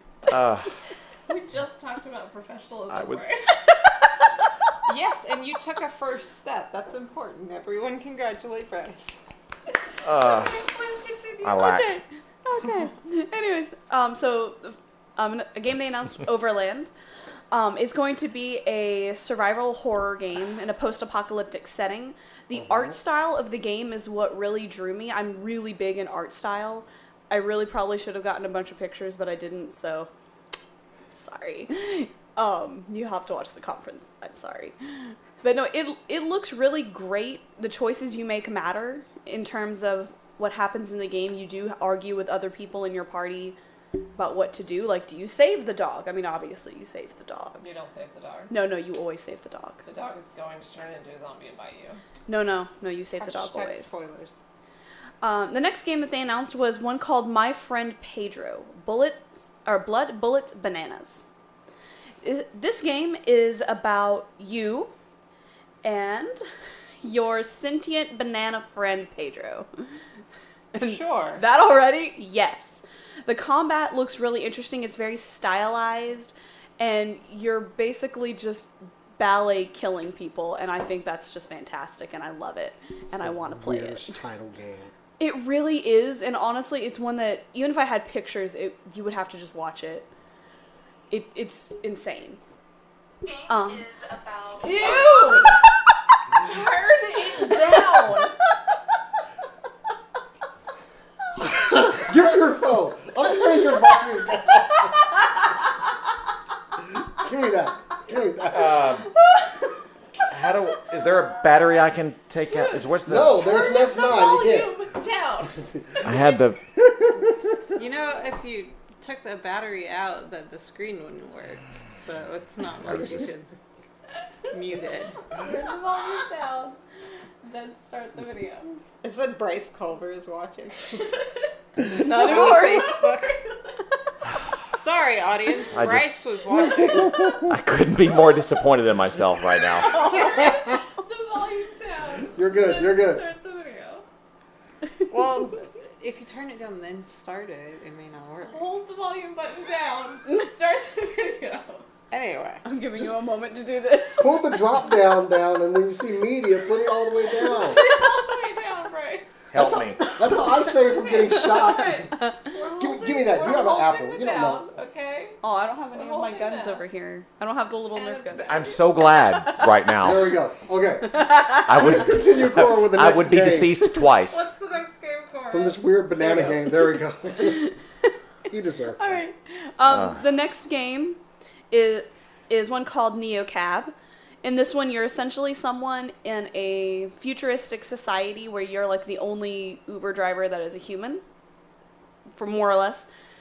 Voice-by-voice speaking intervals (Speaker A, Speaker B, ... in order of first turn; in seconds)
Speaker A: 0.3-0.7, 2.9-3.3, 10.0-10.6, 11.4-12.0, 108.5-109.1, 110.3-113.4, 116.0-116.6, 135.7-136.2, 137.3-140.0, 159.5-160.1, 168.5-170.3, 171.7-174.5, 179.9-180.2
Speaker B: 1.3-3.6, 10.1-11.8, 47.6-48.5, 49.8-52.0, 94.6-95.6, 96.3-98.3, 112.5-115.6, 125.3-126.8, 127.4-128.7, 139.8-144.0, 148.5-151.8, 157.6-159.3, 161.0-165.4, 165.9-166.8, 167.9-168.8, 174.3-175.8
Speaker C: 4.9-9.1, 53.2-54.4, 70.8-71.4, 117.8-123.5, 124.5-125.2, 129.0-131.1, 131.8-133.4, 134.7-137.2, 145.1-148.7, 152.1-152.6
Speaker D: 11.5-16.9, 17.5-30.1, 31.1-43.5, 44.1-47.6, 48.5-49.8, 52.3-53.9, 55.2-61.2, 62.2-64.9, 65.8-66.4, 67.0-69.7, 70.7-84.2, 85.2-90.1, 91.1-92.4, 93.5-95.6, 131.8-133.1, 152.6-154.6, 161.5-162.5, 165.4-168.7, 171.0-171.7, 177.4-177.7, 178.9-181.2, 181.7-191.2, 192.3-193.1
Speaker E: 22.5-22.9, 83.1-84.9, 101.4-105.0, 106.8-108.9, 113.0-114.7, 116.8-117.5, 142.3-143.2, 154.2-157.8, 159.5-162.1, 162.8-164.7, 170.0-173.9, 175.5-177.7, 178.5-179.2